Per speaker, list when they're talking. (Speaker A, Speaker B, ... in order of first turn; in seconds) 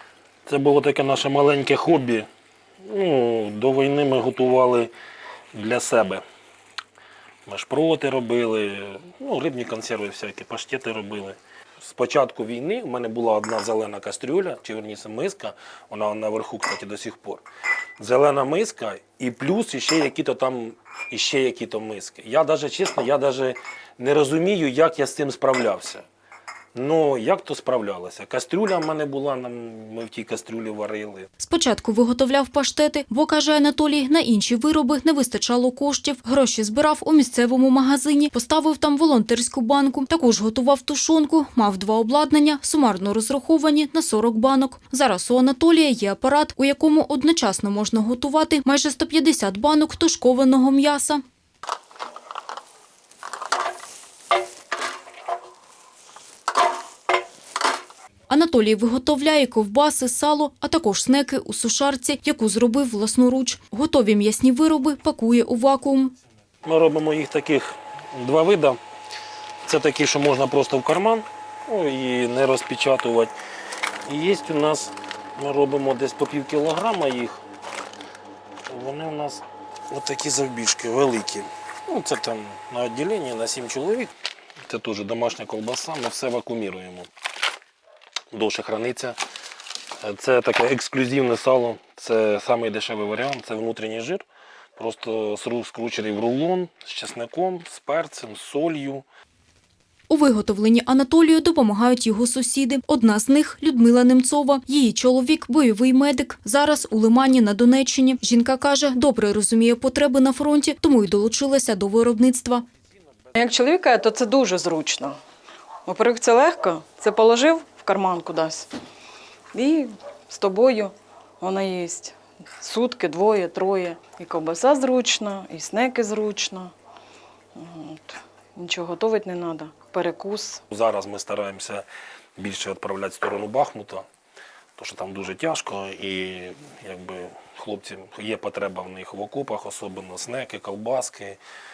Speaker A: 0.5-2.3, 2.8-4.9, 5.5-6.2, 7.5-17.4, 18.0-26.0, 26.8-31.3, 66.6-68.8, 69.7-73.3, 74.1-77.4, 78.7-84.1, 84.7-87.1, 88.3-89.2, 90.0-94.2, 94.8-99.0, 130.7-131.9, 132.4-134.1, 134.8-141.4
Speaker B: 31.4-51.2, 58.3-66.1, 100.1-112.7
Speaker C: 113.3-115.2, 115.8-118.7, 119.5-126.7, 127.5-130.6